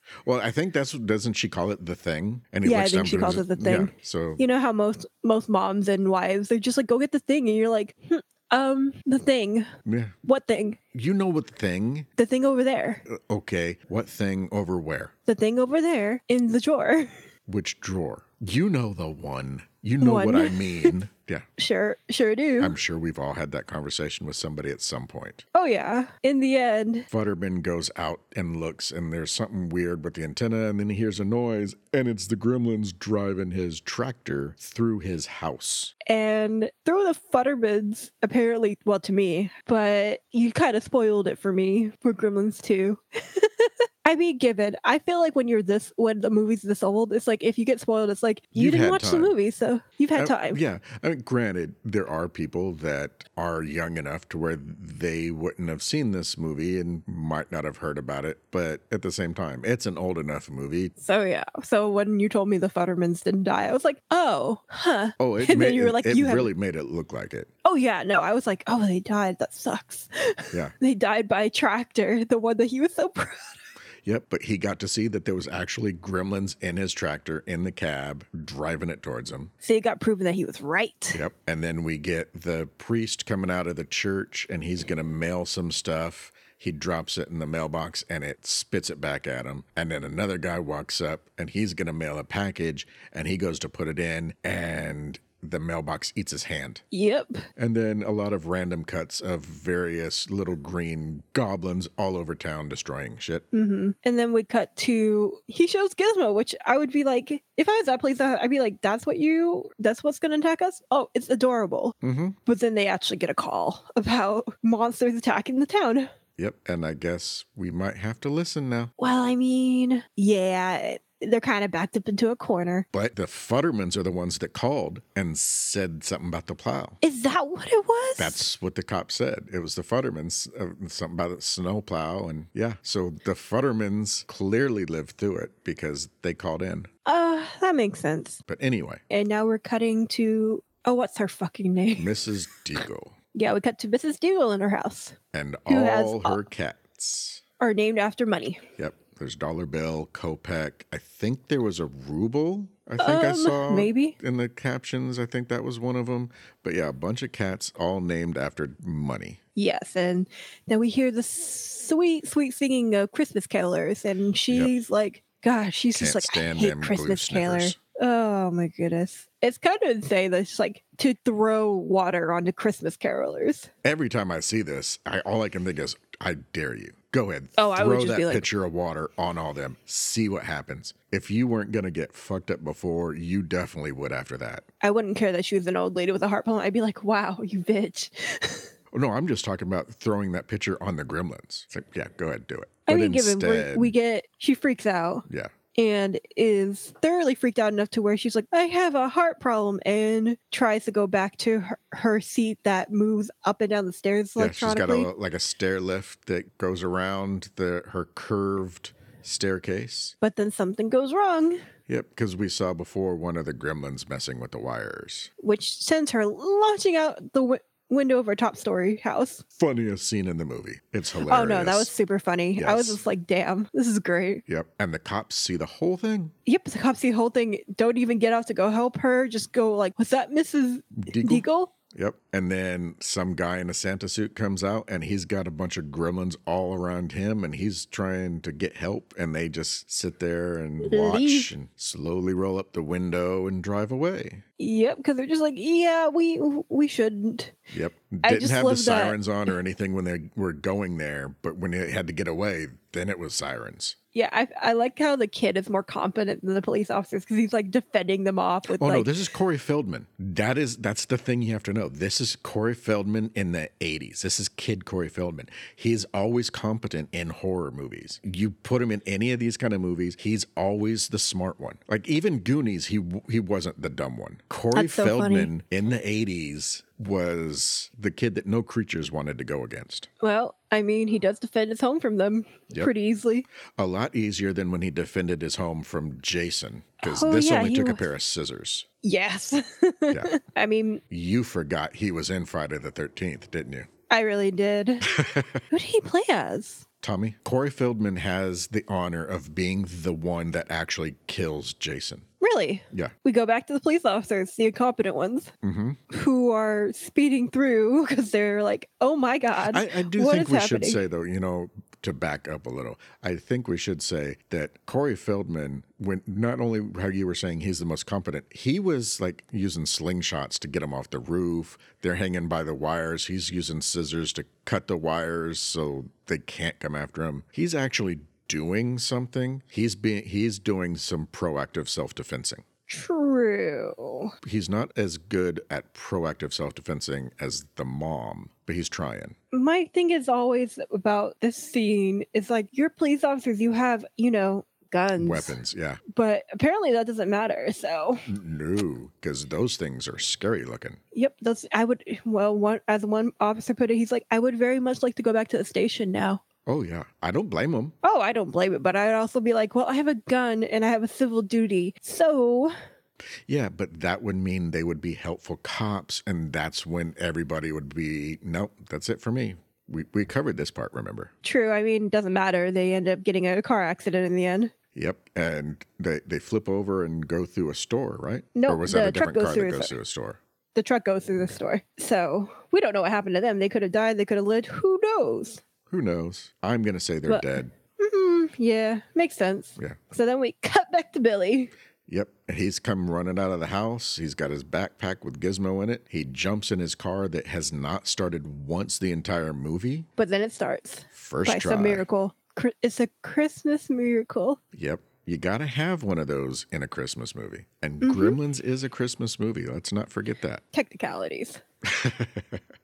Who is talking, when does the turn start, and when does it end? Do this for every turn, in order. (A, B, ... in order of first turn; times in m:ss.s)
0:00.2-0:04.4 A
0:02.6-0:09.7 B
0:09.8-0:10.1 A
0:10.2-0:10.8 B
0:10.9-0:12.1 A
0:12.2-0:13.0 B
0:13.1-0:15.1 A
0:15.2-0:17.2 B
0:17.5-0:21.5 A
0:20.0-0:20.9 B
0:21.6-0:22.8 B
0:22.6-0:25.4 A
0:25.5-0:27.1 B
0:27.1-0:35.9 A
0:36.0-0:50.6 B
0:48.5-0:49.3 A
0:50.2-1:00.9 A
1:01.0-1:06.5 B
1:05.2-1:07.5 A
1:07.6-1:13.6 B
1:14.0-1:19.5 A
1:19.6-1:21.2 B
1:21.1-1:36.8 A
1:36.9-1:37.4 B
1:37.6-1:43.4 A
1:43.5-1:51.9 B
1:52.0-1:52.4 A
1:52.4-1:56.1 B
1:56.4-1:58.9 A
1:59.0-2:02.9 B
2:02.9-2:07.0 A
2:07.0-2:08.4 B
2:08.2-2:16.9 A
2:17.0-2:18.4 B
2:18.5-2:19.0 A
2:19.1-2:22.1 B
2:22.0-2:23.1 A
2:23.3-2:26.4 B
2:25.3-2:27.4 A
2:27.6-2:28.6 B
2:28.8-2:39.4 A
2:33.0-2:34.2 B
2:39.6-2:53.7 B
2:45.9-2:47.8 A
2:53.8-3:04.6 A
2:57.6-2:58.5 B
3:04.8-3:08.7 B
3:08.9-3:13.9 A
3:12.9-3:25.1 B
3:15.3-3:15.5 A
3:24.4-3:30.1 A
3:30.2-3:31.6 B
3:31.9-3:35.3 A
3:35.4-3:39.4 B
3:39.6-3:41.9 A
3:41.2-3:44.4 B
3:42.6-3:43.0 A
3:44.5-3:46.3 A
3:46.4-3:51.7 B
3:50.9-4:04.4 A
4:00.8-4:01.5 B
4:04.6-4:07.6 B
4:07.7-4:14.0 A
4:08.2-4:09.2 B
4:14.1-4:19.1 B
4:18.7-4:40.1 A
4:34.7-4:35.5 B
4:40.2-4:43.4 B
4:43.8-4:48.9 A
4:47.0-4:48.0 B
4:49.0-4:51.0 B
4:51.1-4:53.9 A
4:54.1-4:55.1 B
4:55.0-4:55.6 A
4:55.7-4:56.8 B
4:57.0-5:02.2 A
5:02.4-5:05.5 B
5:05.6-5:06.0 A
5:06.1-5:11.0 B
5:09.6-5:32.6 A
5:32.9-5:34.3 B
5:34.4-5:39.3 A
5:39.5-5:45.6 B
5:45.2-5:46.0 A
5:46.1-5:48.2 B
5:48.2-5:51.0 A
5:51.1-5:56.4 B
5:56.6-5:57.9 A
5:58.0-6:02.7 B
6:03.5-6:11.3 A
6:11.4-6:14.7 B
6:14.9-6:20.4 A
6:18.5-6:19.9 B
6:20.7-6:25.6 B
6:25.9-6:27.7 A
6:27.3-6:31.7 B
6:32.1-6:40.1 A
6:40.2-6:44.6 B
6:41.1-6:42.0 A
6:44.7-6:50.6 A
6:48.0-6:48.4 B
6:50.7-6:51.6 B
6:51.8-6:52.6 A